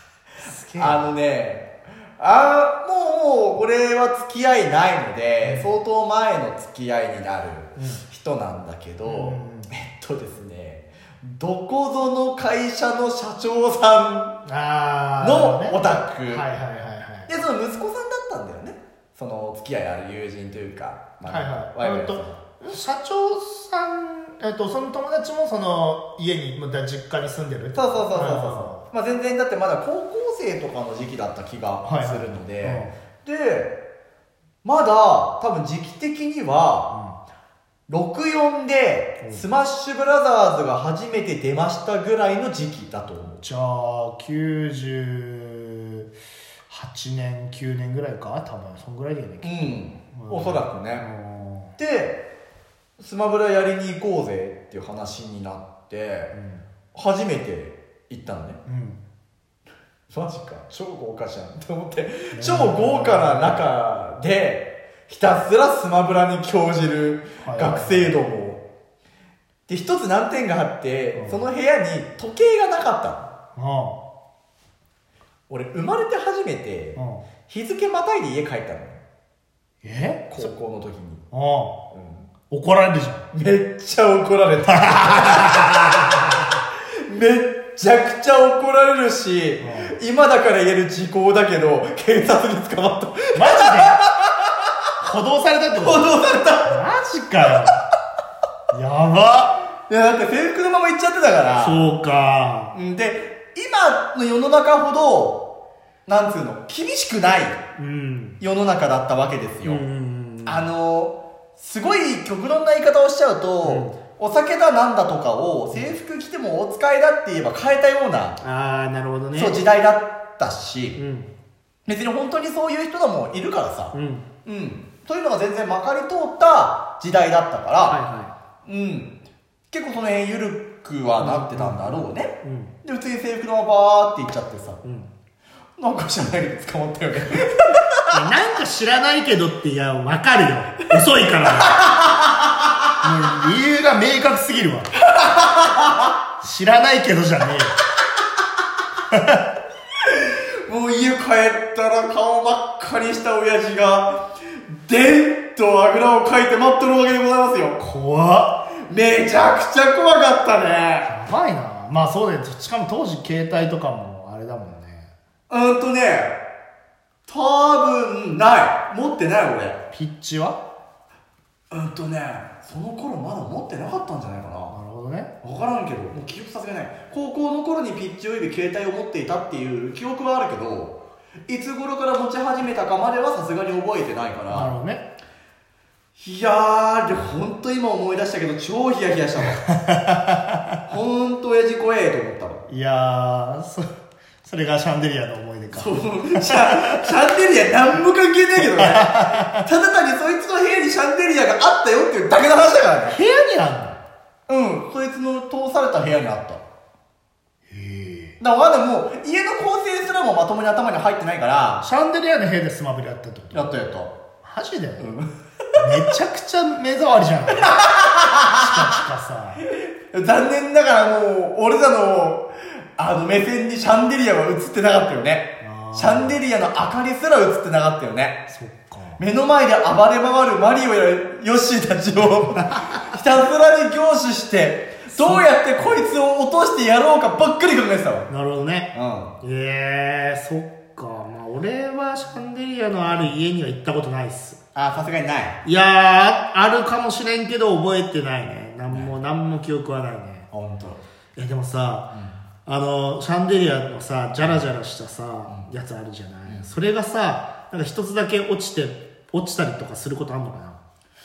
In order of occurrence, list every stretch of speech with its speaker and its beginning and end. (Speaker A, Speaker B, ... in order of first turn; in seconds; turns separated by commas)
Speaker A: 0.4-1.1, Speaker B: 0.8-14.4, Speaker A: 5.4-5.7, Speaker A: 9.0-9.7, Speaker A: 14.4-17.3, Speaker B: 15.2-16.4, Speaker B: 17.3-22.4, Speaker A: 21.2-28.8, Speaker B: 27.7-33.8, Speaker A: 31.8-32.9, Speaker B: 34.6-36.9, Speaker A: 36.9-37.2, Speaker B: 37.9-43.4, Speaker A: 43.4-46.1, Speaker A: 46.7-51.7, Speaker B: 49.4-51.1, Speaker B: 51.8-52.2, Speaker B: 53.0-56.4, Speaker A: 56.3-56.6, Speaker B: 56.9-58.6, Speaker A: 58.6-59.0, Speaker B: 60.1-68.6, Speaker A: 62.3-63.6, Speaker A: 67.4-68.1, Speaker B: 69.7-73.3, Speaker A: 71.1-71.4, Speaker A: 73.5-74.0, Speaker B: 75.5-79.0, Speaker A: 77.0-77.3, Speaker A: 79.8-80.5, Speaker B: 80.3-81.2, Speaker A: 81.3-81.8, Speaker B: 81.9-82.3, Speaker A: 82.5-83.3, Speaker B: 83.3-85.9, Speaker A: 84.6-86.5, Speaker B: 86.7-94.9, Speaker A: 89.6-89.9, Speaker A: 93.3-94.0, Speaker A: 95.0-96.1, Speaker B: 95.8-96.8, Speaker A: 96.6-97.8, Speaker A: 98.7-99.6, Speaker B: 99.9-101.9, Speaker A: 101.5-102.8, Speaker B: 102.7-105.5, Speaker B: 106.1-107.7, Speaker A: 107.8-108.4, Speaker B: 108.4-109.8, Speaker A: 109.6-110.7, Speaker B: 110.4-118.4, Speaker A: 113.6-114.0, Speaker A: 118.4-119.6, Speaker B: 119.3-121.0, Speaker A: 121.0-121.3, Speaker B: 121.8-128.0, Speaker A: 123.9-124.3, Speaker A: 127.8-128.3, Speaker B: 128.6-129.2, Speaker B: 129.7-134.8, Speaker A: 131.2-132.7, Speaker A: 134.8-135.1, Speaker B: 135.8-138.0, Speaker A: 138.1-141.9, Speaker B: 141.2-142.9, Speaker A: 143.0-144.9, Speaker B: 145.0-146.1, Speaker A: 146.4-147.8, Speaker A: 149.1-149.4, Speaker B: 150.0-157.8, Speaker A: 157.8-158.6, Speaker B: 158.7-161.1, Speaker A: 161.1-165.1, Speaker B: 165.5-166.4, Speaker B: 167.3-169.8, Speaker A: 169.9-170.6, Speaker B: 171.7-174.8, Speaker A: 174.7-175.3, Speaker B: 175.4-184.7, Speaker A: 184.5-185.1, Speaker B: 186.2-189.6, Speaker A: 189.4-190.8, Speaker B: 190.9-192.6, Speaker A: 192.7-193.8, Speaker A: 194.4-197.1, Speaker B: 195.7-203.2, Speaker A: 198.6-199.7, Speaker A: 203.1-204.0, Speaker B: 204.5-206.6, Speaker A: 207.7-208.3, Speaker B: 208.4-211.8, Speaker A: 211.8-213.8, Speaker B: 213.5-214.2, Speaker A: 214.4-215.1, Speaker B: 215.0-215.8, Speaker A: 215.8-217.9, Speaker B: 217.6-219.0, Speaker A: 218.5-219.6, Speaker B: 219.6-228.5, Speaker A: 225.6-226.3, Speaker A: 228.5-229.2, Speaker B: 229.2-238.3, Speaker A: 232.6-233.1, Speaker A: 235.1-236.0, Speaker A: 238.3-238.9, Speaker B: 238.9-239.4, Speaker A: 239.4-244.6, Speaker B: 244.7-245.6, Speaker A: 245.6-250.5, Speaker B: 248.9-249.1, Speaker B: 250.5-251.0, Speaker A: 251.3-252.1, Speaker B: 252.1-252.4, Speaker A: 252.7-260.8, Speaker B: 254.4-254.7, Speaker B: 255.5-255.7, Speaker B: 256.4-256.7